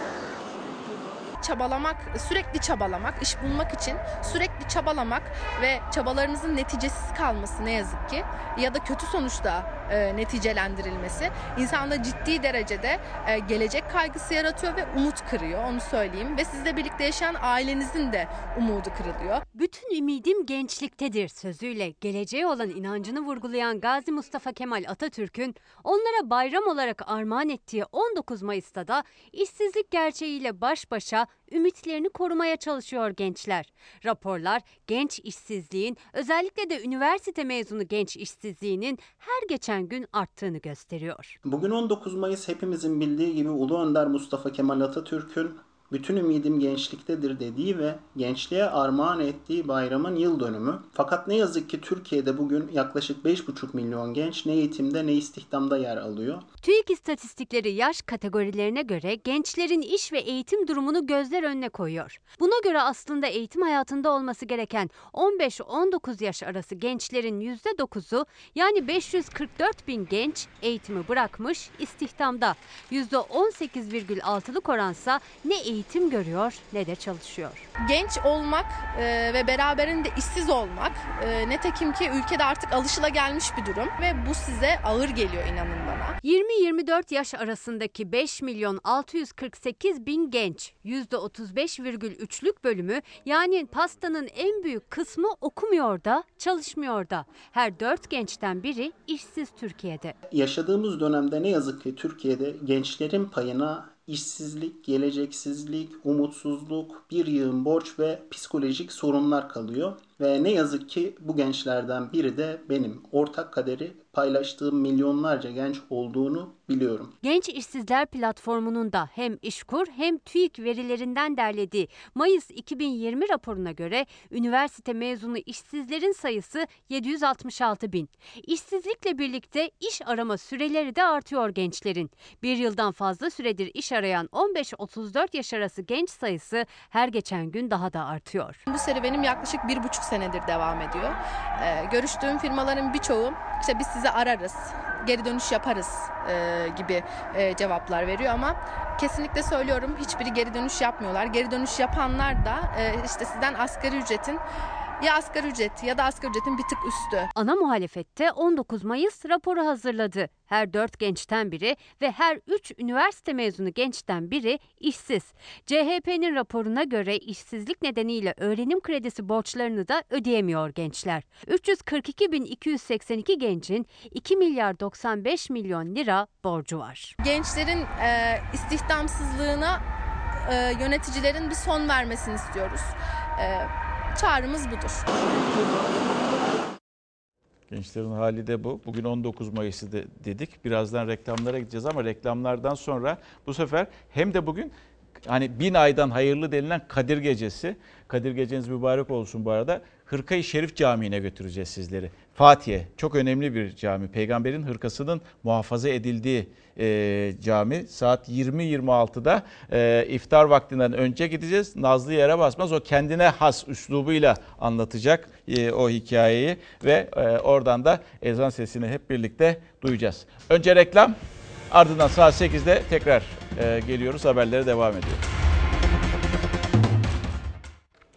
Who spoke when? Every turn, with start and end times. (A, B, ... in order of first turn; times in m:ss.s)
0:01.4-0:19.4 A
0:19.5-0:41.4 B
0:41.4-0:56.4 C
0:56.6-1:17.6 B
1:17.8-1:26.2 A
1:26.2-1:40.1 B
1:40.3-1:57.1 C
1:57.2-2:18.6 B
2:18.7-2:34.4 A
2:35.0-2:37.3 A
2:37.4-2:57.1 B
2:57.2-2:59.8 A
3:00.4-3:05.1 A
3:07.7-3:14.7 D
3:15.3-3:41.2 D
3:41.7-3:45.2 D